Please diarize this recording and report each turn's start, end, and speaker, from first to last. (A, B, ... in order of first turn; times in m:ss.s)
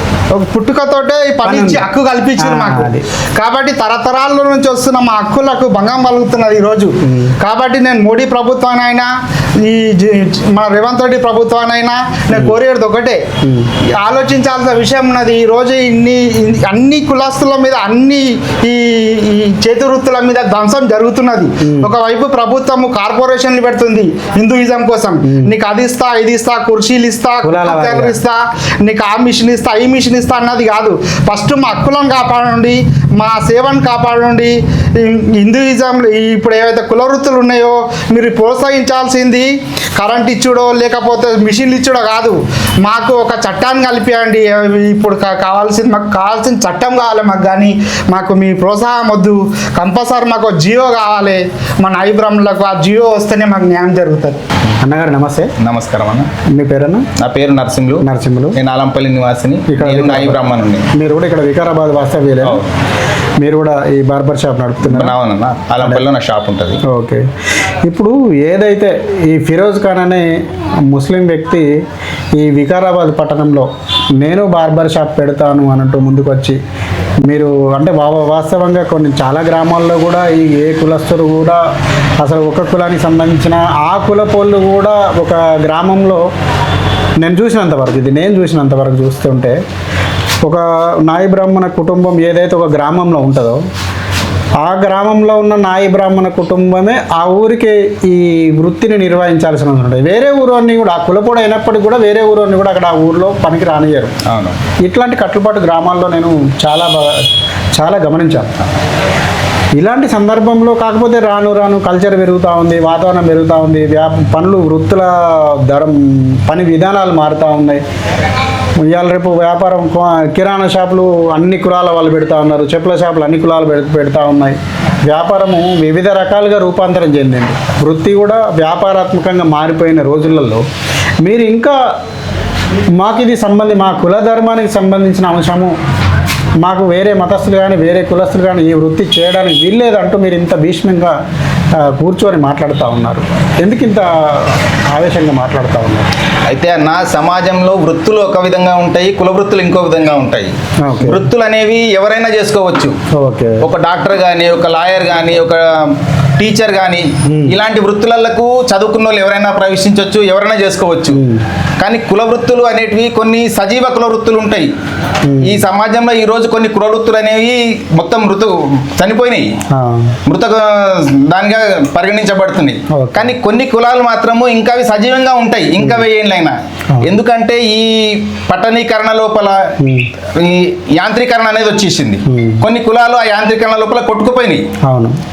0:00.3-0:09.1 A
0:01.4-0:03.0 B
0:07.0-0:07.3 B
0:09.6-0:13.2 A
0:12.3-0:12.6 B
0:14.0-0:54.4 A
0:21.6-0:21.9 B
0:25.2-0:25.6 B
0:27.4-0:28.2 B
0:54.8-0:55.5 B
0:55.6-0:56.3 C
0:56.5-0:57.1 B
0:57.2-0:58.0 C
0:58.0-0:58.6 B
0:58.6-1:00.9 C
0:59.7-1:00.4 B
1:00.9-1:02.6 B
1:03.4-1:05.2 B
1:04.8-1:06.8 C
1:06.9-1:07.2 B
1:07.8-1:10.3 B
1:10.9-1:11.7 B
1:12.4-1:16.6 B
1:17.3-1:21.6 B
1:22.2-1:26.2 B
1:27.2-1:29.6 B
1:30.4-1:33.6 B
1:34.6-1:44.1 B
1:44.3-1:44.6 C
1:44.8-1:48.5 B
1:49.8-1:57.8 B
1:58.8-2:10.6 B
2:11.2-2:11.8 B
2:13.0-2:15.8 B
2:16.6-2:21.2 B
2:21.8-2:26.1 B
2:26.5-2:32.9 C
2:30.8-2:31.3 B
2:33.1-2:33.7 B
2:33.6-2:41.2 C
2:37.3-2:37.6 B
2:41.1-2:41.4 B
2:41.8-2:44.7 C
2:45.3-2:45.6 B
2:45.4-2:49.5 C
2:49.7-2:50.2 B
2:50.3-2:59.6 C
2:52.9-2:53.3 B
2:59.8-3:00.1 B
3:00.4-3:04.6 C
3:02.3-3:02.6 B
3:04.8-3:05.2 B